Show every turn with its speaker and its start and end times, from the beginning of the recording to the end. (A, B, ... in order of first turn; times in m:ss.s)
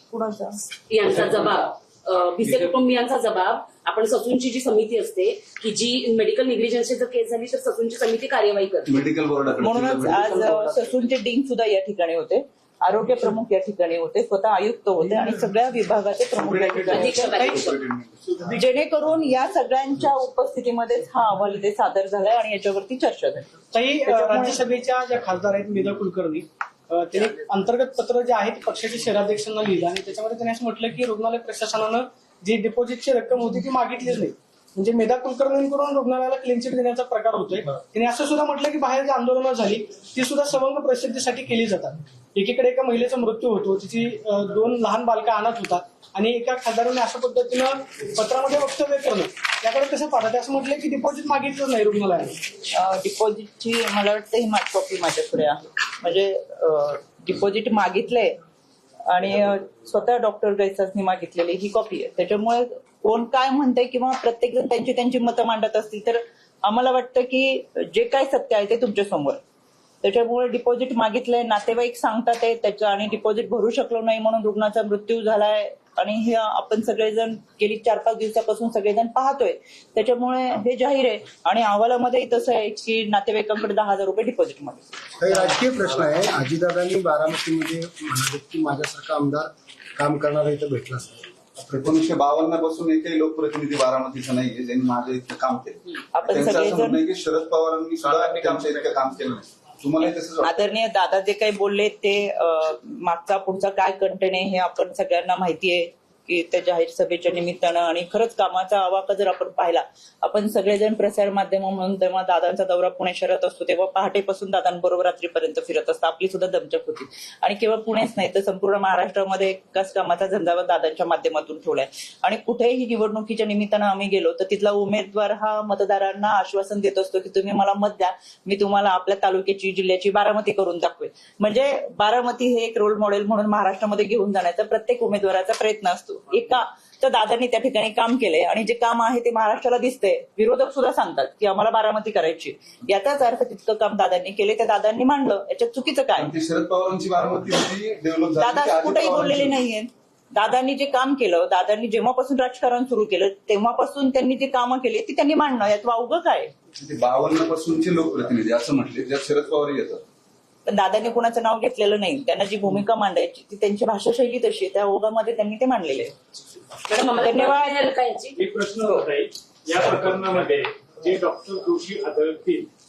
0:00.1-0:00.6 A
0:00.9-0:09.0 B
0:02.4-0:02.7 C
0:08.8-0:10.8 C
0:09.6-0:17.4 A
0:16.4-0:18.5 C
0:16.9-0:17.8 B
0:18.5-0:23.5 A
0:23.7-0:52.4 D
0:24.0-0:24.6 A
0:52.7-0:58.4 A
0:59.1-1:09.4 A
1:10.0-1:25.5 A
1:25.2-1:32.0 E
1:31.7-1:40.6 C
1:36.1-1:37.0 A
1:40.4-2:26.3 A
2:26.2-2:29.6 C
2:28.4-2:36.5 A
2:36.8-2:40.0 C
2:40.7-2:46.1 A
2:46.9-2:48.4 B
2:47.2-2:47.8 A
2:48.4-2:52.7 F